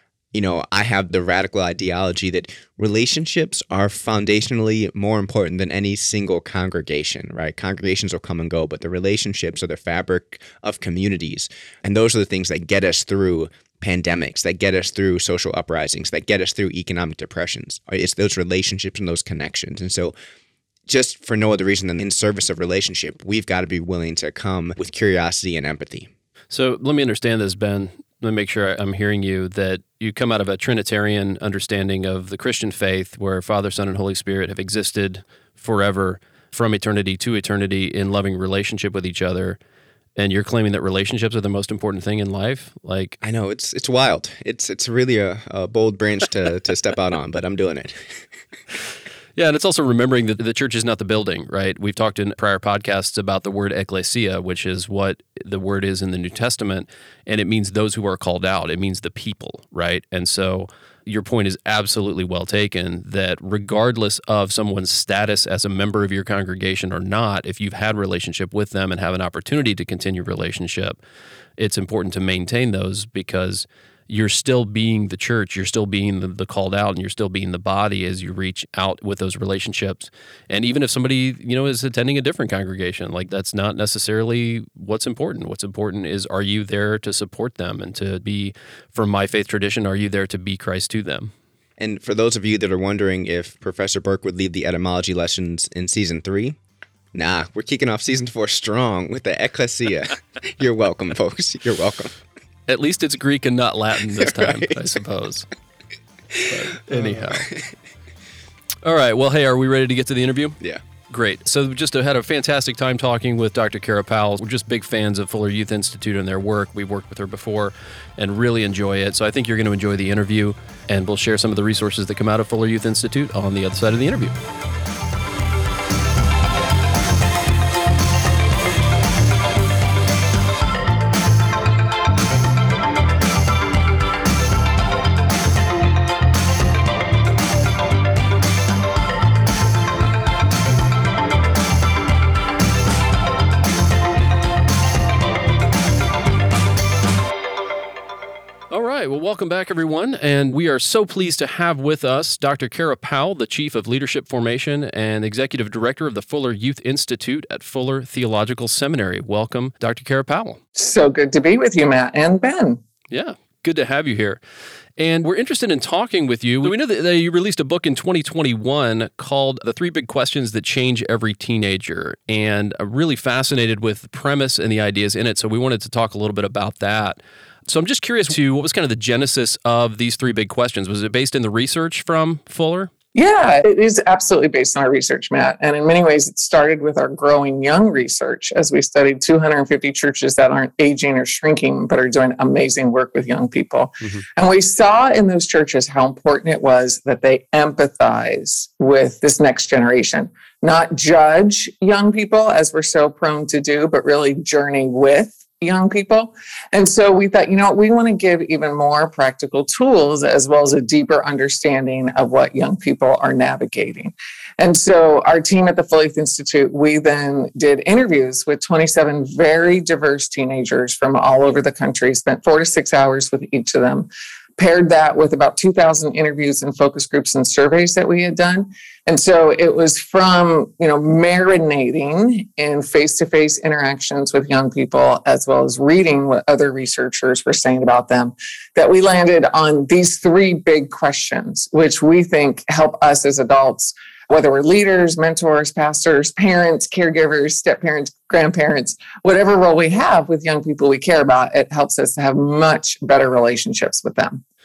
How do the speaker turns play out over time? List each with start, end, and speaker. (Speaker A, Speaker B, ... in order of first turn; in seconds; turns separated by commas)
Speaker A: 0.3-20.1, Speaker A: 20.9-26.1, Speaker B: 26.5-39.6, Speaker B: 40.2-43.2, Speaker A: 43.2-48.2, Speaker B: 49.4-71.0, Speaker B: 71.6-91.3, Speaker A: 91.8-96.6, Speaker A: 97.2-102.2, Speaker B: 102.7-105.5, Speaker A: 104.2-105.0, Speaker A: 106.3-107.7, Speaker B: 106.5-107.5, Speaker B: 108.8-124.3, Speaker B: 148.7-160.6, Speaker C: 160.8-162.8, Speaker B: 163.1-164.4, Speaker B: 165.0-182.9, Speaker C: 183.2-254.4